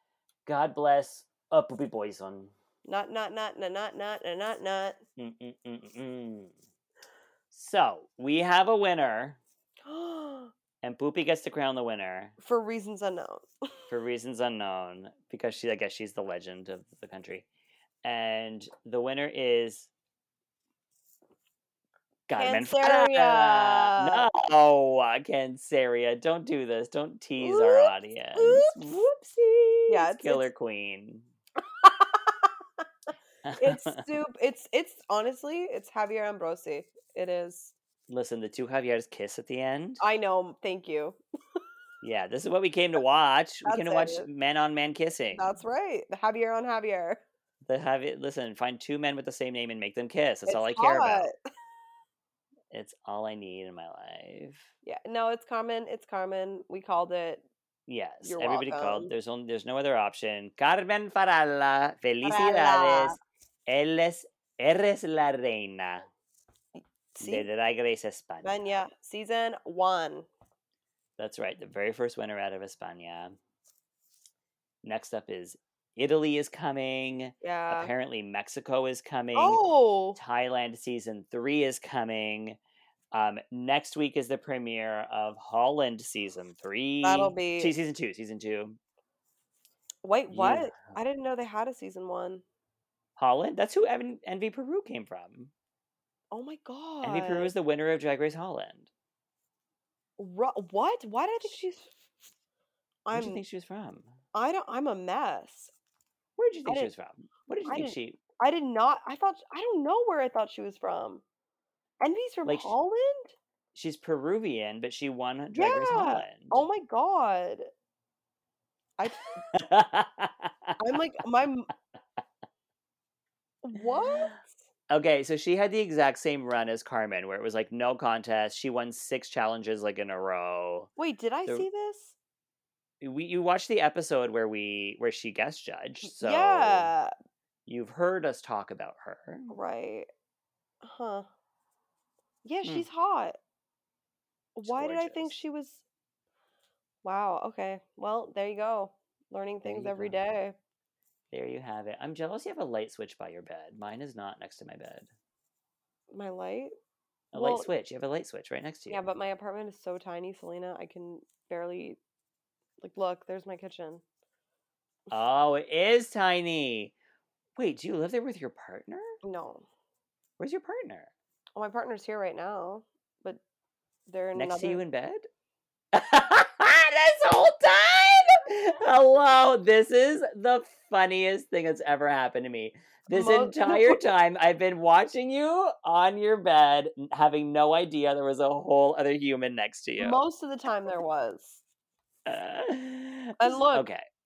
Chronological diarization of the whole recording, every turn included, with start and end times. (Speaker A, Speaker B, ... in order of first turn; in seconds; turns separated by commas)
Speaker A: 0.5-2.5, Speaker B: 2.8-5.0, Speaker A: 5.2-6.5, Speaker A: 7.5-9.4, Speaker B: 9.8-10.5, Speaker A: 10.8-12.3, Speaker B: 12.4-13.5, Speaker A: 13.9-17.5, Speaker A: 18.0-19.9, Speaker A: 22.3-31.3, Speaker B: 22.4-24.3, Speaker B: 27.4-28.8, Speaker B: 29.9-30.4, Speaker B: 31.8-32.5, Speaker A: 33.4-34.0, Speaker B: 33.6-37.7, Speaker A: 38.1-40.0, Speaker B: 40.0-41.6, Speaker A: 42.0-45.5, Speaker B: 43.6-44.3, Speaker B: 45.3-47.2, Speaker A: 47.6-51.3, Speaker B: 50.5-51.3, Speaker A: 52.7-54.7, Speaker B: 54.8-57.4, Speaker A: 57.9-66.1, Speaker B: 58.2-59.1, Speaker B: 62.2-63.2, Speaker B: 66.8-67.5, Speaker A: 67.2-68.6, Speaker B: 68.4-70.3, Speaker A: 71.2-73.4, Speaker A: 74.8-82.6, Speaker B: 77.4-77.9, Speaker B: 79.3-80.2, Speaker A: 83.1-88.8, Speaker B: 87.0-87.7, Speaker B: 90.0-92.4, Speaker A: 90.3-91.0, Speaker A: 93.2-95.5, Speaker B: 96.3-97.5, Speaker A: 97.0-98.9, Speaker B: 100.2-101.9, Speaker B: 103.0-103.4, Speaker A: 103.1-104.2, Speaker B: 104.3-105.7, Speaker A: 106.4-108.2, Speaker B: 107.6-111.2, Speaker B: 112.0-113.4, Speaker A: 112.4-112.7, Speaker A: 113.7-116.6, Speaker B: 115.5-117.7, Speaker B: 119.0-119.5, Speaker A: 119.2-120.8, Speaker B: 120.8-121.7, Speaker B: 123.6-124.6, Speaker A: 124.9-130.9, Speaker B: 131.0-132.2, Speaker A: 133.0-136.9, Speaker B: 136.0-137.1, Speaker A: 137.7-139.5, Speaker B: 139.5-140.1, Speaker B: 140.8-141.2, Speaker B: 142.4-143.4, Speaker B: 144.6-145.8, Speaker A: 144.6-145.4, Speaker B: 147.0-150.6, Speaker A: 149.6-150.2, Speaker A: 151.3-155.1, Speaker B: 156.1-156.7, Speaker B: 157.3-157.7, Speaker A: 157.3-159.1, Speaker B: 158.9-162.0, Speaker B: 162.8-164.0, Speaker A: 165.1-166.9, Speaker A: 167.6-169.2, Speaker B: 169.2-169.7, Speaker A: 170.4-171.1, Speaker B: 171.5-173.4, Speaker B: 174.1-174.8, Speaker A: 174.3-175.3, Speaker A: 175.9-190.2, Speaker B: 183.1-184.0, Speaker B: 190.0-191.6, Speaker A: 192.2-194.0, Speaker B: 193.4-193.9